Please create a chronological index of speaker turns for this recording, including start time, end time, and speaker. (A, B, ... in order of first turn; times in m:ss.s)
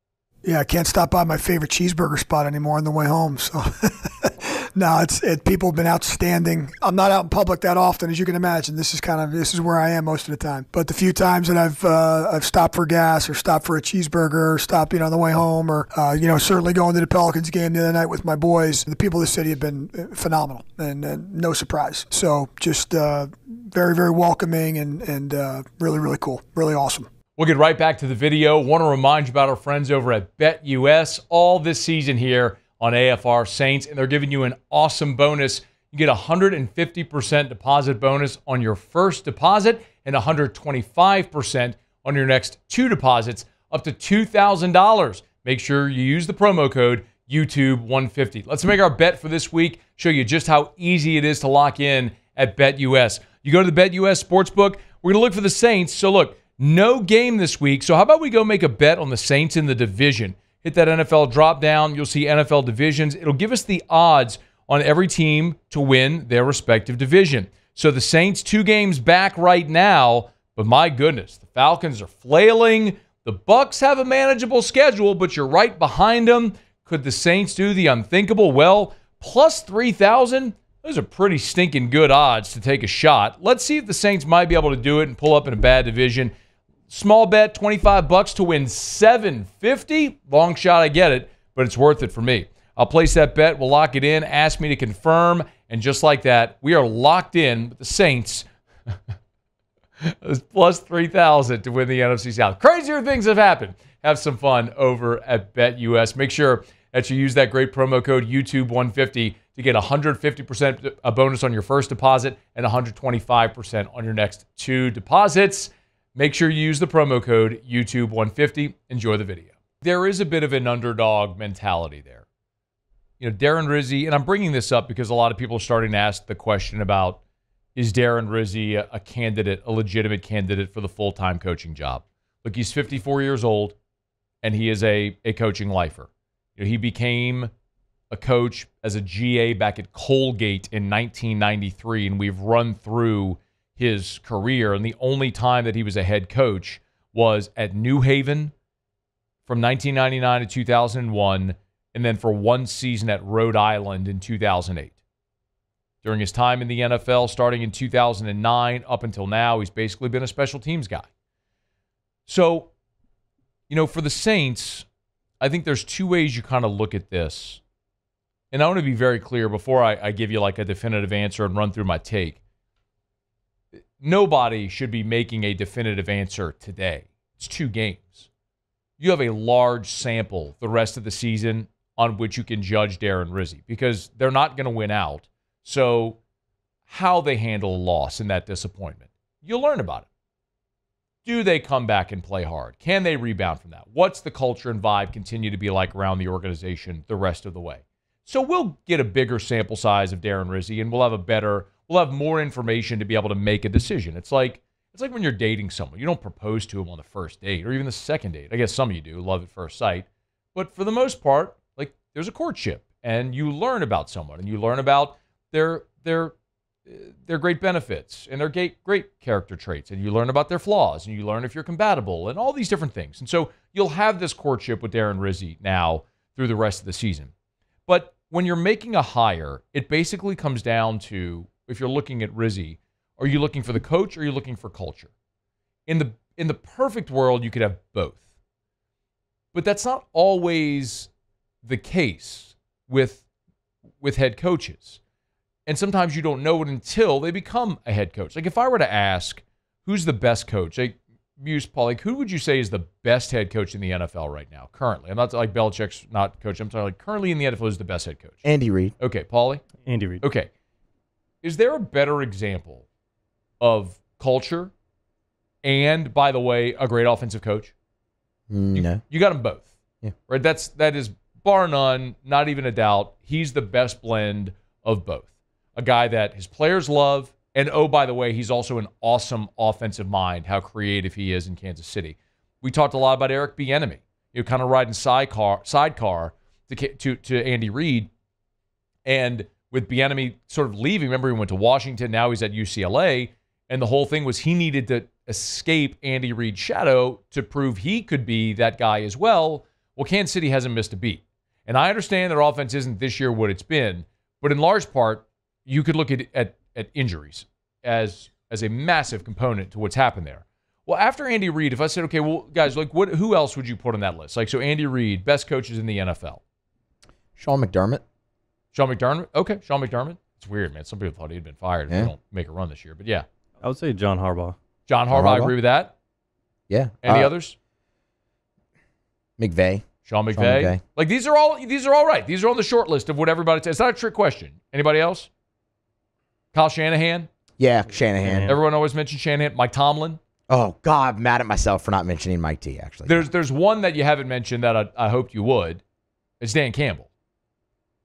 0:00.4-0:27.1 A
0:27.4-1:26.3 B
1:26.9-1:38.5 B
1:40.0-2:02.3 B
2:03.2-2:07.2 B
2:07.8-2:13.8 B
2:14.4-2:17.5 B
2:18.1-2:28.5 B
2:29.5-2:35.0 B
2:36.0-2:41.1 B
2:42.3-2:42.7 B
2:43.7-2:44.9 B
2:45.4-2:47.6 B
2:48.5-2:52.4 B
2:54.0-2:58.3 B
2:59.0-3:06.2 B
3:06.9-3:10.1 B
3:11.2-3:36.3 B
3:36.9-3:47.3 B
3:47.9-3:55.1 B
3:55.9-3:58.2 B
3:59.5-4:01.1 B
4:01.6-4:03.2 B
4:04.0-4:05.0 B
4:05.7-4:18.4 B
4:18.4-4:19.0 C
4:19.0-4:19.6 B
4:19.9-4:20.2 D
4:20.2-4:20.5 B
4:21.4-4:22.9 B
4:23.6-4:24.7 B
4:25.6-4:27.7 B
4:28.5-4:29.0 C
4:28.7-4:29.7 B
4:30.3-4:48.1 B
4:49.0-5:16.4 B
5:17.4-5:18.0 C
5:18.7-5:23.3 B
5:23.6-5:24.6 D
5:24.9-5:25.9 B
5:25.1-5:25.5 C
5:26.7-5:27.3 C
5:27.0-5:27.6 B
5:29.4-5:30.8 C
5:30.0-5:35.3 B
5:36.5-5:37.3 B
5:37.6-5:38.5 C
5:37.9-5:38.5 D
5:38.5-5:40.2 B
5:40.5-5:43.3 C
5:43.1-5:45.8 B
5:46.4-5:47.1 B